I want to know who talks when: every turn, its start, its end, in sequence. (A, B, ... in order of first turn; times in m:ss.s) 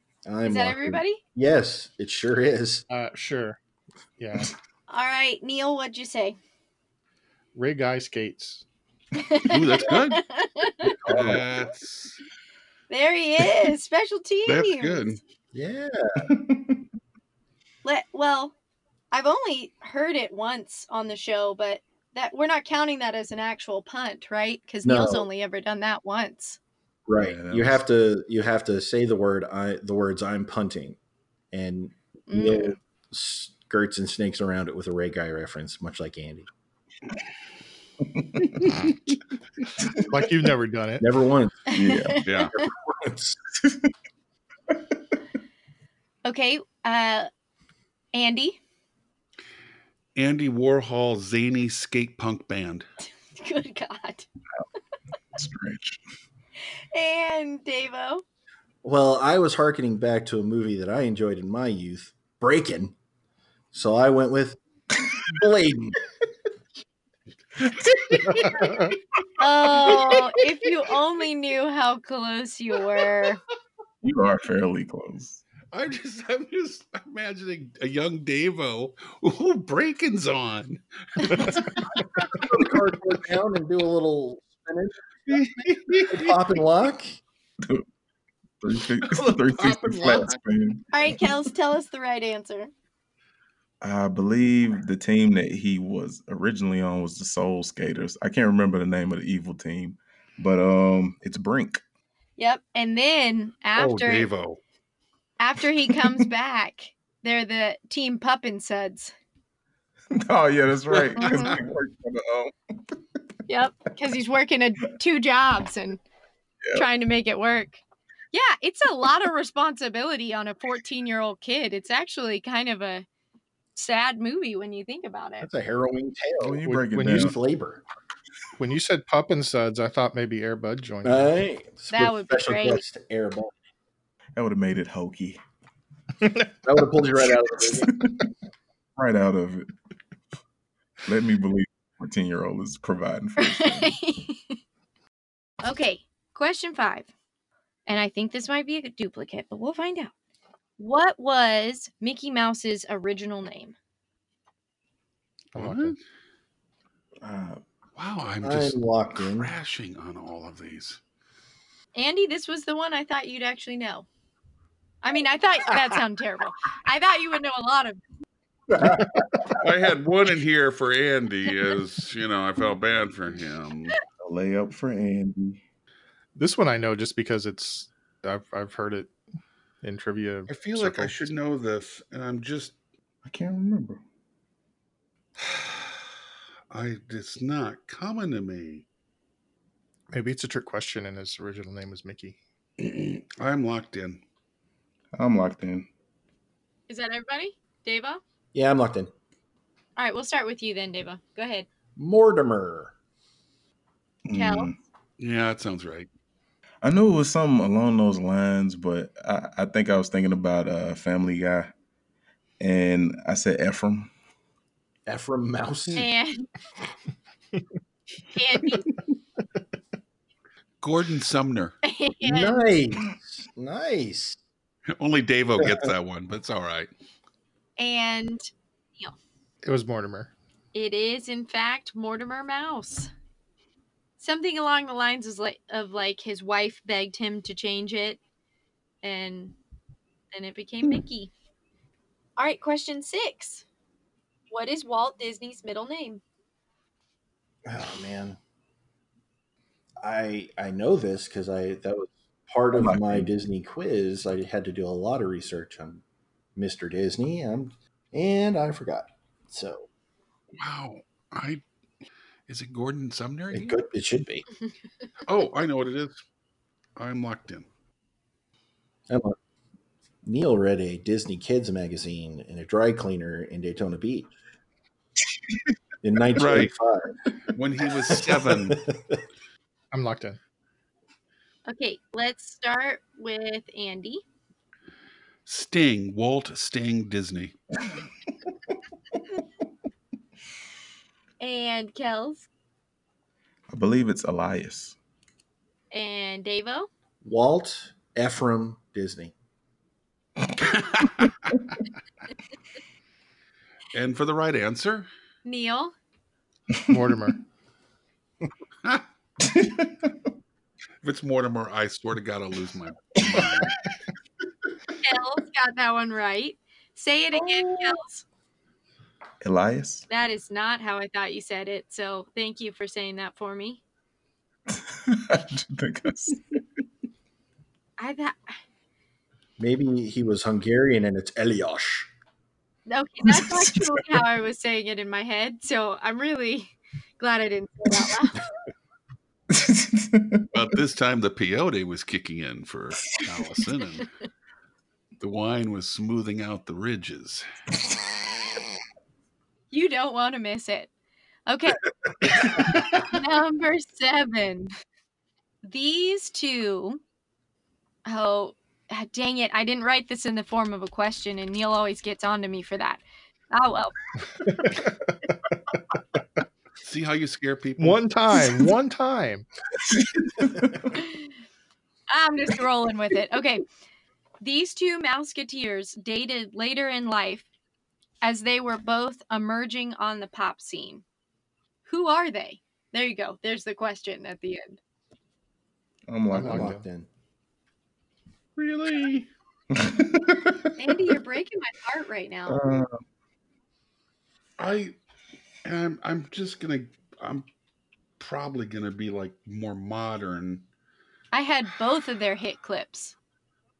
0:00.2-0:02.8 A
0:00.4-0:01.2 B
0:02.9-0:03.6 C
0:04.2-0:04.5 C
0:04.9-0:06.4 B
0:07.5-0:08.6 C
0:09.2-0:11.0 B
0:09.4-0:10.2 D
0:11.0-0:11.5 E
0:11.1-0:12.2 D
0:11.1-0:11.4 A
0:12.9-0:15.2 B
0:14.4-0:15.2 D
0:15.5-0:16.2 A
0:16.2-0:16.8 E
0:17.8-0:18.5 B
0:19.1-0:26.6 B
0:24.8-0:25.2 A
0:27.1-0:31.0 A
0:27.2-0:27.8 E
0:31.5-0:36.5 A
0:32.3-0:32.8 B
0:38.2-0:38.7 E
0:40.0-0:41.0 C
0:41.0-0:41.6 A
0:41.7-0:42.7 B
0:41.7-0:42.2 E
0:42.2-0:42.5 D
0:42.5-0:43.4 A
0:43.6-0:43.9 E
0:46.2-0:47.3 B
0:48.1-0:48.6 B
0:50.2-0:52.9 D
0:53.3-0:54.3 B
0:55.3-0:56.0 E
0:56.9-0:58.2 B
0:58.8-1:02.9 A
1:03.7-1:04.6 A
1:05.2-1:06.0 A
1:08.0-1:08.5 E
1:08.3-1:08.9 C
1:09.4-1:13.4 B
1:14.0-1:15.4 E
1:15.7-1:21.7 D
1:22.3-1:27.2 A
1:25.3-1:26.4 D
1:28.6-1:31.2 E
1:29.0-1:30.4 D
1:30.9-1:32.7 B
1:33.8-1:41.8 E
1:42.4-1:44.3 B
1:43.8-1:44.6 D
1:45.4-1:49.1 B
1:50.1-1:52.6 E
1:50.9-1:51.6 D
1:51.2-1:51.6 B
1:53.5-1:56.0 B
1:56.7-1:57.8 B
1:58.3-2:03.0 B
2:03.8-2:05.5 B
2:05.4-2:07.8 A
2:06.4-2:07.4 E
2:06.6-2:07.3 C
2:08.6-2:11.3 C
2:11.0-2:13.5 A
2:11.9-2:12.8 B
2:14.4-2:15.4 E
2:16.6-2:18.0 A
2:19.0-2:19.7 E
2:21.0-2:23.9 E
2:23.4-2:24.6 B
2:25.6-2:27.1 B
2:27.9-2:30.1 B
2:30.8-2:33.7 B
2:35.5-2:36.0 C
2:35.6-2:36.0 D
2:37.2-2:37.6 E
2:38.0-2:41.0 D
2:38.4-2:39.5 A
2:41.9-2:44.0 B
2:45.0-2:48.0 B
2:48.7-2:49.1 A
2:49.5-2:54.0 D
2:54.2-2:55.6 E
2:56.4-2:59.1 C
2:59.8-3:01.3 C
3:00.5-3:02.8 D
3:03.2-3:04.0 E
3:06.7-3:08.8 D
3:10.1-3:12.4 C
3:12.8-3:14.2 D
3:15.1-3:15.9 E
3:16.9-3:18.2 B
3:18.5-3:19.1 A
3:20.0-3:21.7 B
3:22.0-3:22.9 A
3:24.2-3:24.7 E
3:24.3-3:24.7 B
3:25.2-3:26.1 D
3:26.8-3:31.7 E
3:32.6-3:34.1 E
3:35.1-3:36.1 A
3:36.0-3:36.5 B
3:38.3-3:38.9 B
3:40.8-3:41.8 D
3:41.8-3:42.6 B
3:42.2-3:44.4 A
3:44.9-3:46.9 D
3:45.6-3:45.8 A
3:47.8-3:49.1 B
3:49.6-3:50.3 C
3:50.7-3:53.1 B
3:54.2-3:58.2 B
3:59.0-3:59.6 B
4:00.3-4:01.3 B
4:02.4-4:03.6 B
4:04.5-4:06.2 B
4:07.6-4:08.4 A
4:10.0-4:16.0 A
4:12.7-4:13.3 E
4:16.6-4:19.9 A
4:20.6-4:21.6 D
4:22.5-4:23.8 D
4:23.5-4:24.4 A
4:25.2-4:26.2 D
4:27.0-4:27.6 D
4:29.1-4:29.4 A
4:30.2-4:34.3 A
4:36.0-4:37.2 A
4:36.4-4:36.7 D
4:37.5-4:38.8 D
4:38.0-4:39.2 A
4:39.9-4:40.4 C
4:41.6-4:44.2 B
4:45.4-4:47.8 D
4:51.4-4:52.5 B
4:53.7-4:55.0 E
4:55.9-4:56.9 B
4:57.2-4:59.3 A
5:00.6-5:01.5 D
5:03.9-5:05.1 D
5:05.4-5:05.9 B
5:06.9-5:07.4 C
5:09.4-5:10.1 E
5:11.0-5:13.8 D
5:15.0-5:18.2 B
5:19.4-5:20.0 E
5:20.1-5:23.8 B
5:24.7-5:26.6 E
5:28.0-5:28.6 B
5:29.6-5:32.1 A
5:32.9-5:38.5 B
5:33.2-5:34.0 E
5:39.5-5:40.5 E
5:40.5-5:44.1 D
5:45.2-5:47.5 D
5:49.7-5:50.9 B
5:51.5-5:54.7 B
5:55.6-5:57.0 B
5:58.0-6:04.0 B
6:04.4-6:05.1 C
6:06.8-6:08.0 D
6:07.8-6:09.5 C
6:09.9-6:10.9 E
6:11.0-6:11.2 B
6:12.1-6:13.6 B
6:14.4-6:17.4 B
6:18.2-6:21.0 B
6:21.8-6:24.8 B
6:26.1-6:26.7 E
6:26.3-6:26.8 C
6:26.4-6:27.1 A
6:28.6-6:29.3 D
6:29.7-6:30.9 E
6:30.8-6:32.8 B
6:32.5-6:33.0 E
6:34.6-6:35.0 D
6:35.6-6:37.4 D
6:38.2-6:40.6 D
6:41.3-6:43.2 B